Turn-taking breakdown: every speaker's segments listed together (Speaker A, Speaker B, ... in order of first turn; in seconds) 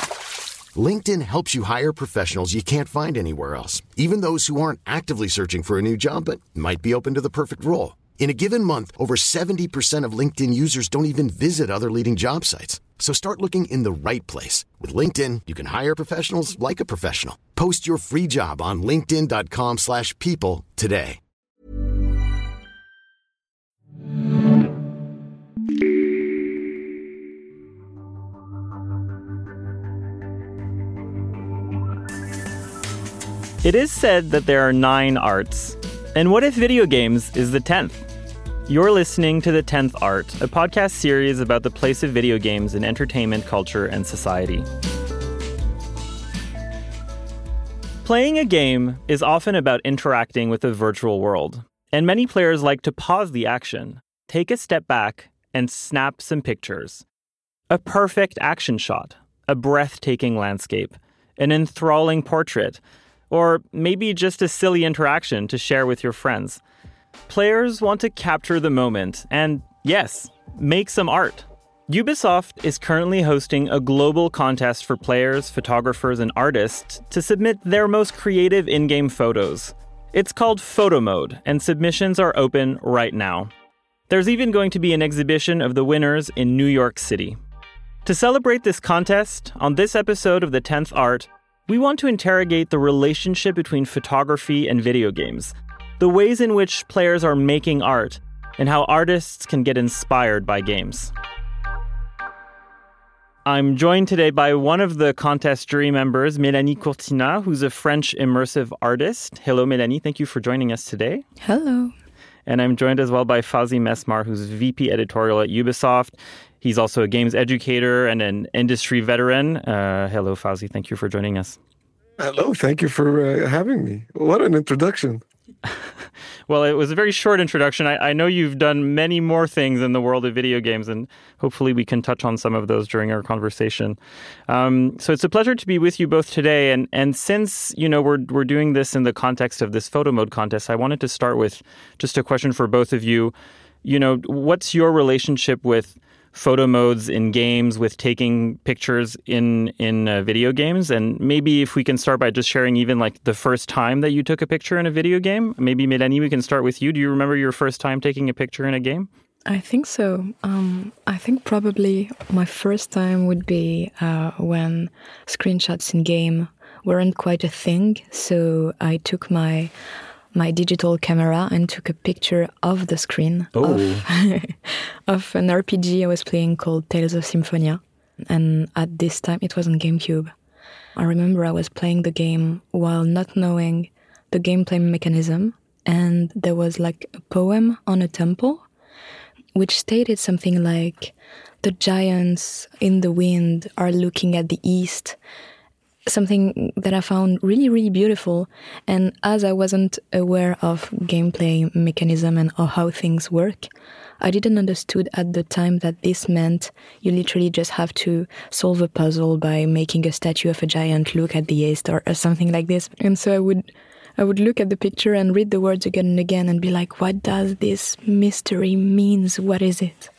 Speaker A: 0.7-21.2
Speaker B: 33.6-38.0, 38.7-44.6, 48.0-57.0, 57.7-66.6, 67.3-83.5, 84.1-87.4, 88.0-101.1, 103.4-111.2, 112.5-121.6, 126.5-159.1, 173.5-174.0
Speaker C: 111.4-111.9, 159.5-169.7, 170.3-180.3, 180.9-188.6, 189.5-195.2, 196.1-203.7, 204.2-213.7, 214.2-220.1
Speaker D: 122.2-125.2